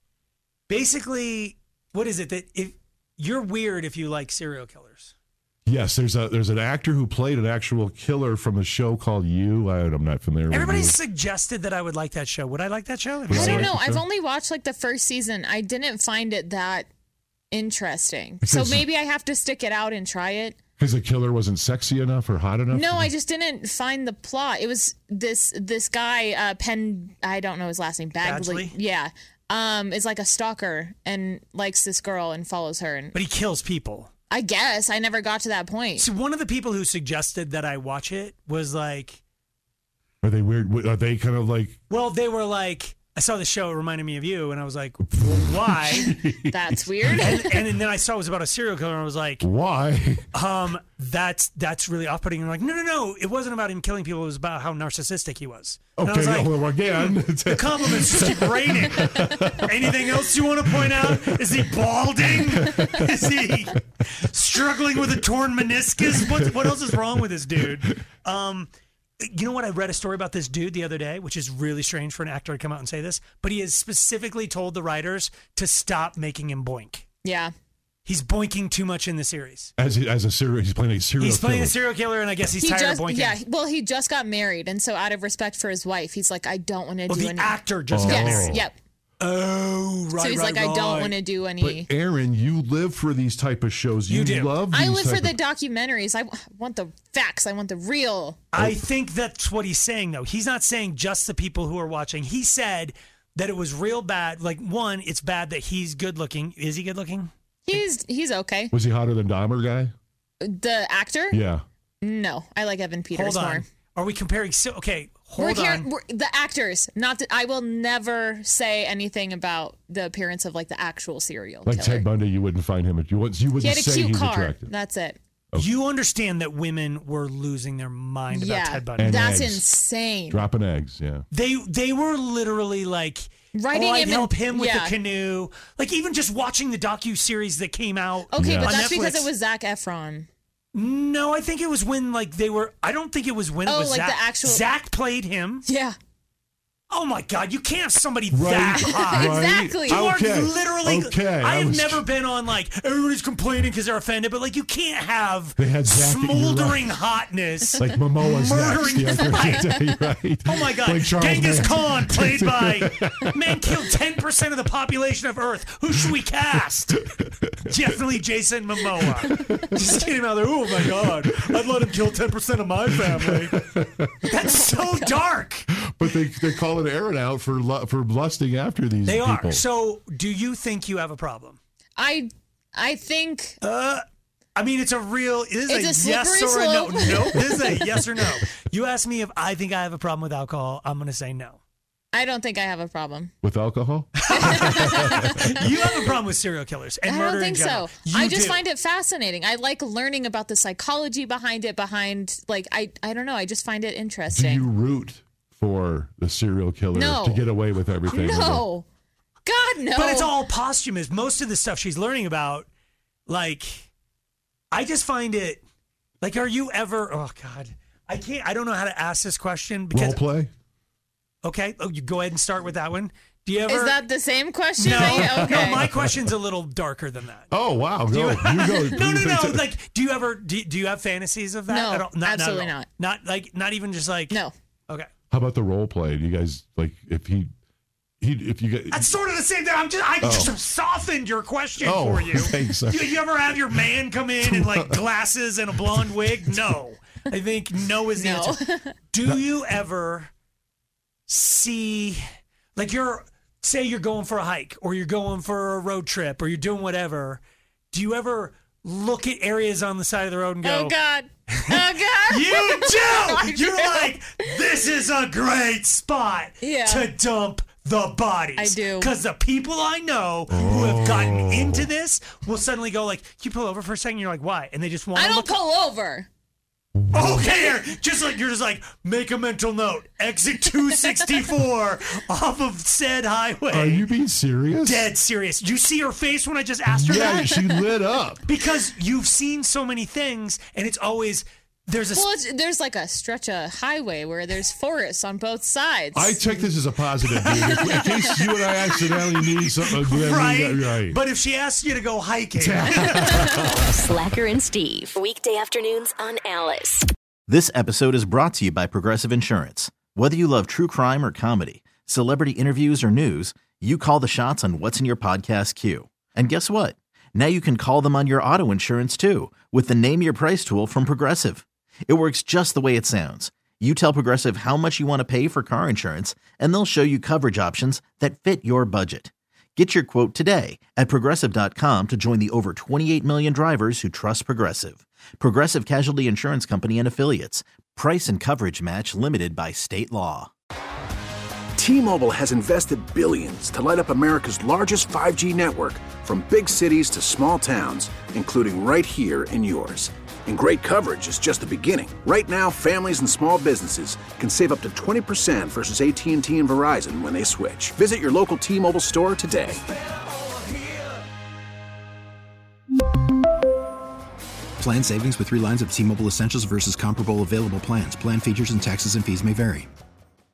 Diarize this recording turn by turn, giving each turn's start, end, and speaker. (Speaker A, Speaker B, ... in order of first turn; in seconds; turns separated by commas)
Speaker A: 0.7-5.1, Speaker B: 5.7-11.0, Speaker A: 10.5-13.7, Speaker B: 13.3-14.1, Speaker C: 13.3-16.9, Speaker C: 17.5-20.6, Speaker B: 18.4-18.9, Speaker B: 20.8-23.1, Speaker C: 22.7-33.2, Speaker A: 28.2-28.8, Speaker A: 33.1-34.1, Speaker C: 34.3-36.1, Speaker A: 36.0-39.2, Speaker B: 40.2-41.8, Speaker A: 41.9-46.2, Speaker B: 45.1-47.5, Speaker C: 46.5-47.6, Speaker A: 47.2-49.5, Speaker B: 49.4-50.3, Speaker A: 50.3-77.0, Speaker B: 56.0-60.2, Speaker B: 60.8-61.5, Speaker B: 62.5-63.7, Speaker C: 77.2-77.5, Speaker A: 78.1-79.7, Speaker B: 79.8-81.7, Speaker A: 81.2-83.4, Speaker C: 82.6-88.8, Speaker A: 87.1-88.7, Speaker B: 87.9-88.6, Speaker A: 89.2-91.2, Speaker C: 90.2-91.9, Speaker B: 91.6-95.4, Speaker A: 94.1-94.6, Speaker C: 94.7-98.4, Speaker A: 98.5-107.3, Speaker C: 107.7-108.7, Speaker B: 108.7-109.9, Speaker C: 110.4-111.4, Speaker B: 111.3-111.6, Speaker C: 112.0-113.7, Speaker A: 113.1-115.9, Speaker C: 115.4-122.1, Speaker B: 121.7-124.7, Speaker C: 123.6-125.2, Speaker A: 125.6-129.4, Speaker C: 128.3-130.4, Speaker B: 129.0-129.7, Speaker B: 130.3-131.2, Speaker A: 131.3-139.3, Speaker C: 133.6-134.9, Speaker C: 138.3-140.3, Speaker B: 138.3-138.9, Speaker A: 140.7-145.7, Speaker C: 143.7-144.7, Speaker C: 145.7-145.9, Speaker A: 146.9-159.7, Speaker B: 148.3-152.0, Speaker C: 148.8-150.1, Speaker B: 155.6-156.9, Speaker B: 157.7-163.8, Speaker A: 160.4-167.0, Speaker B: 167.1-167.7, Speaker A: 167.7-173.6, Speaker B: 169.0-169.9, Speaker B: 173.1-174.3, Speaker A: 174.2-175.7, Speaker B: 175.8-179.7, Speaker A: 179.1-181.6, Speaker C: 182.0-183.6, Speaker A: 183.6-184.0, Speaker A: 184.6-191.6, Speaker C: 185.7-187.7, Speaker C: 192.1-193.3, Speaker B: 193.4-195.7, Speaker A: 194.2-198.6, Speaker C: 194.3-195.8, Speaker C: 197.1-204.7, Speaker B: 204.3-208.7, Speaker C: 206.9-207.5, Speaker C: 208.1-208.9, Speaker C: 209.4-210.3, Speaker A: 209.9-212.7, Speaker A: 213.3-213.9, Speaker A: 214.7-215.6, Speaker A: 216.2-220.2, Speaker B: 219.9-220.5, Speaker A: 221.4-224.1, Speaker C: 223.7-225.8, Speaker A: 224.8-227.5, Speaker B: 224.9-226.3, Speaker B: 227.5-229.7, Speaker A: 228.1-235.1, Speaker C: 231.7-232.9, Speaker B: 235.3-237.5, Speaker B: 238.2-239.1, Speaker A: 238.9-248.6, Speaker B: 240.2-240.6, Speaker B: 241.8-243.2, Speaker B: 244.4-245.0, Speaker C: 248.2-248.9, Speaker A: 249.1-250.3, Speaker A: 251.3-252.2, Speaker A: 252.8-261.0, Speaker C: 260.6-264.1, Speaker A: 261.5-275.5, Speaker C: 266.6-267.1, Speaker C: 268.6-269.1, Speaker B: 270.5-271.9, Speaker C: 275.1-276.3, Speaker B: 276.9-277.5, Speaker A: 277.1-284.1, Speaker B: 283.7-285.1, Speaker A: 284.8-292.3, Speaker B: 286.9-288.4, Speaker C: 292.1-296.7, Speaker B: 296.1-301.2, Speaker A: 297.3-303.7, Speaker C: 297.5-298.4, Speaker B: 302.6-303.9, Speaker D: 303.9-307.1, Speaker E: 307.5-340.5, Speaker F: 341.8-359.8, Speaker G: 364.8-369.9